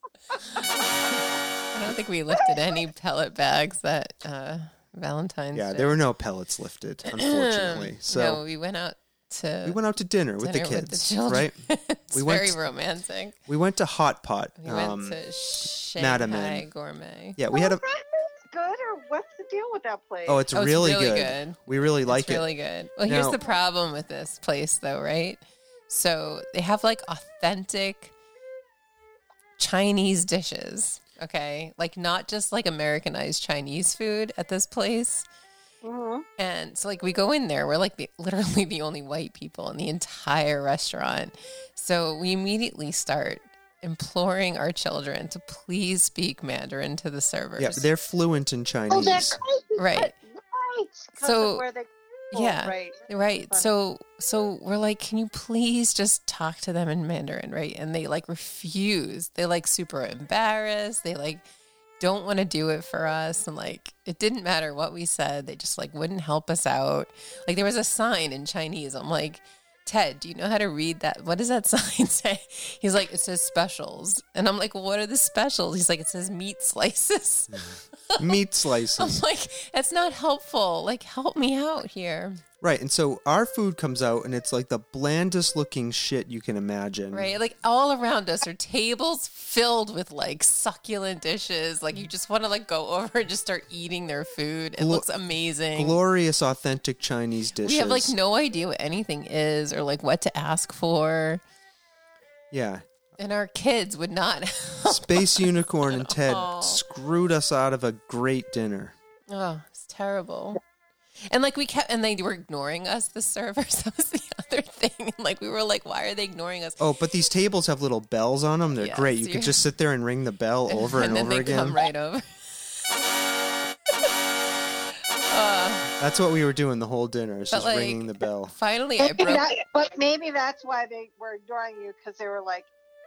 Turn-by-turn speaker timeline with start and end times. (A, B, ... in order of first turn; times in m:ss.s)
0:01.7-0:06.0 A
0:05.5-0:08.4 B
0:07.1-0:09.8 A
0:09.6-0:12.6 B
0:10.4-0:13.4 A
0:13.5-0:15.2 B
0:14.6-0:17.4 A
0:16.0-0:16.7 B
0:17.4-0:17.8 B
0:17.5-0:20.5 C
0:20.2-0:22.5 B
0:20.5-0:28.1 A
0:23.0-0:23.4 B
0:29.6-0:35.2 A
0:35.8-0:36.2 C
0:36.4-0:47.9 A
0:47.6-0:49.4 B
0:48.9-0:53.7 C
0:49.8-0:50.1 A
0:51.2-0:51.6 A
0:52.3-1:01.4 A
1:02.0-1:18.4 A
1:17.5-1:19.2 B
1:19.0-1:22.4 A
1:22.6-1:27.3 B
1:27.1-1:36.0 A
1:34.8-1:35.1 B
1:35.7-1:38.1 B
1:37.6-1:41.4 A
1:42.5-1:42.8 B
1:43.2-1:46.8 A
1:44.9-1:48.9 B
1:49.3-1:50.6 A
1:51.2-1:56.8 A
1:56.8-2:01.8 B
1:58.8-1:59.6 A
2:00.7-2:02.9 A
2:05.2-2:05.9 A
2:06.0-2:08.5 B
2:07.5-2:09.4 A
2:09.0-2:12.7 C